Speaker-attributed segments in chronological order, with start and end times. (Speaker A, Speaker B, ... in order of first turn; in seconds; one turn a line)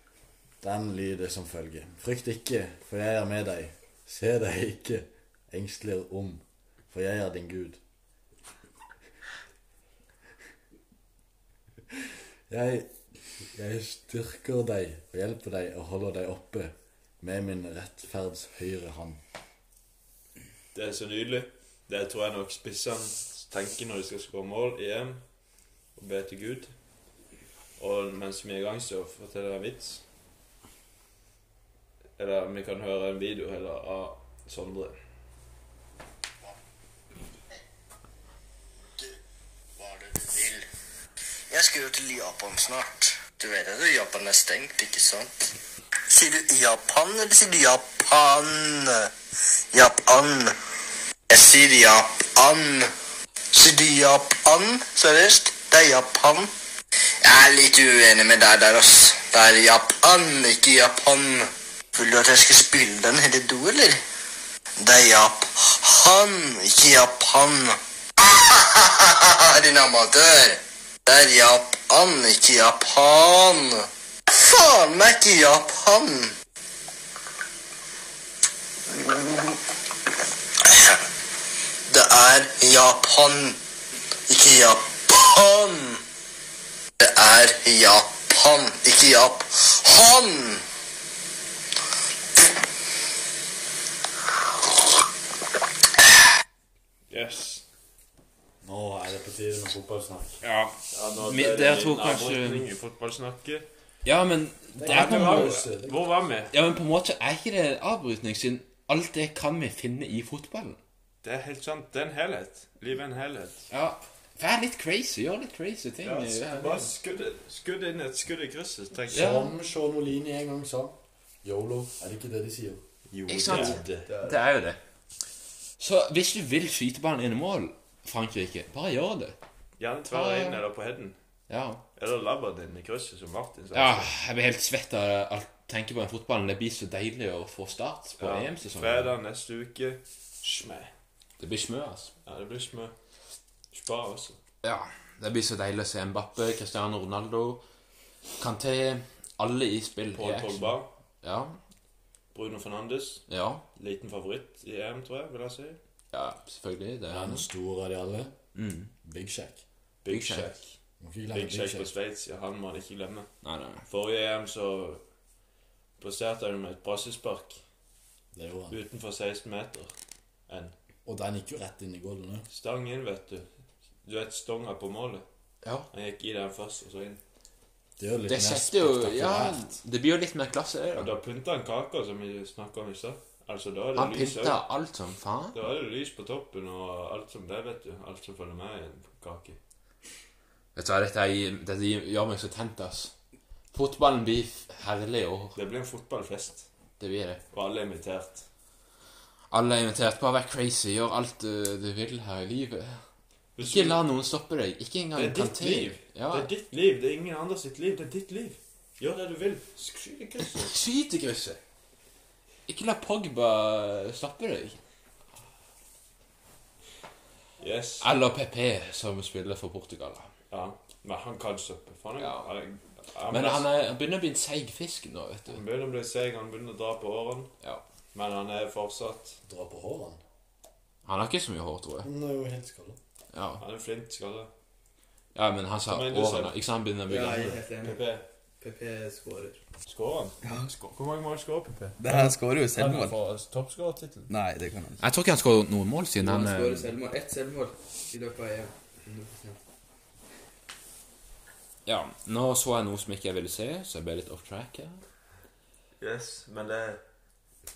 Speaker A: 0.6-7.8
Speaker A: 12.5-12.9
Speaker A: 13.4-19.2
Speaker B: 20.7-25.2
Speaker B: 26.0-26.7
Speaker B: 27.8-30.0
Speaker B: 32.2-35.0
Speaker C: 39.8-40.7
Speaker C: 41.5-45.5
Speaker C: 46.1-49.1
Speaker C: 49.7-50.5
Speaker C: 51.3-52.9
Speaker C: 53.5-56.5
Speaker C: 57.2-64.0
Speaker C: 64.8-76.3
Speaker C: 79.0-79.6
Speaker C: 80.6-81.0
Speaker C: 81.9-83.6
Speaker C: 84.3-86.0
Speaker C: 87.0-90.6
Speaker B: 97.1-97.6
Speaker A: 98.6-100.4
Speaker D: 100.4-102.7
Speaker B: 100.9-103.7
Speaker D: 104.0-105.7
Speaker A: 104.8-106.0
Speaker B: 104.8-106.5
Speaker D: 106.5-110.8
Speaker B: 111.2-113.7
Speaker D: 113.7-116.9
Speaker B: 116.0-119.3
Speaker D: 119.1-119.5
Speaker A: 119.1-122.8
Speaker B: 123.1-124.1
Speaker D: 123.3-124.8
Speaker E: 124.1-124.4
Speaker D: 125.8-129.4
Speaker B: 129.8-131.2
Speaker D: 130.1-130.6
Speaker D: 131.5-131.8
Speaker B: 132.0-134.1
Speaker D: 133.7-139.1
Speaker B: 138.2-140.9
Speaker D: 141.4-142.1
Speaker B: 142.2-142.9
Speaker B: 143.7-144.4
Speaker D: 144.6-147.6
Speaker D: 148.4-151.6
Speaker B: 150.1-150.9
Speaker B: 152.3-153.2
Speaker D: 153.3-153.6
Speaker B: 153.8-155.8
Speaker D: 156.1-157.5
Speaker A: 157.1-158.3
Speaker D: 158.6-158.9
Speaker A: 159.0-159.6
Speaker B: 160.0-160.8
Speaker D: 160.1-160.5
Speaker A: 161.0-161.9
Speaker B: 161.3-163.3
Speaker D: 163.4-163.8
Speaker B: 163.9-165.0
Speaker B: 166.0-167.6
Speaker A: 168.3-168.8
Speaker B: 168.7-169.9
Speaker B: 170.5-170.7
Speaker A: 171.1-172.5
Speaker B: 172.5-173.5
Speaker B: 174.1-175.2
Speaker B: 175.9-177.2
Speaker A: 178.0-179.8
Speaker D: 178.3-181.2
Speaker B: 180.9-184.6
Speaker D: 184.0-185.6
Speaker B: 185.5-189.6
Speaker D: 190.8-193.1
Speaker D: 193.7-195.6
Speaker B: 195.6-196.7
Speaker D: 197.0-197.4
Speaker B: 197.5-198.4
Speaker D: 199.5-203.0
Speaker B: 203.6-204.0
Speaker D: 203.6-206.5
Speaker B: 205.2-210.7
Speaker D: 210.6-211.6
Speaker D: 212.7-214.8
Speaker B: 217.6-218.1
Speaker D: 218.0-220.3
Speaker B: 220.5-223.7
Speaker D: 222.2-222.5
Speaker D: 223.3-225.6
Speaker B: 225.5-227.5
Speaker B: 228.1-229.4
Speaker A: 229.5-230.2
Speaker D: 231.1-232.1
Speaker A: 232.0-233.0
Speaker D: 233.3-233.6
Speaker B: 233.6-234.5
Speaker D: 235.3-237.6
Speaker B: 235.9-236.5
Speaker E: 237.1-238.0
Speaker B: 237.8-238.2
Speaker E: 238.6-239.6
Speaker B: 239.9-244.3
Speaker E: 240.4-240.7
Speaker E: 242.0-243.2
Speaker E: 244.3-245.0
Speaker D: 245.0-246.9
Speaker E: 246.2-249.6
Speaker D: 251.9-255.0
Speaker B: 256.0-257.0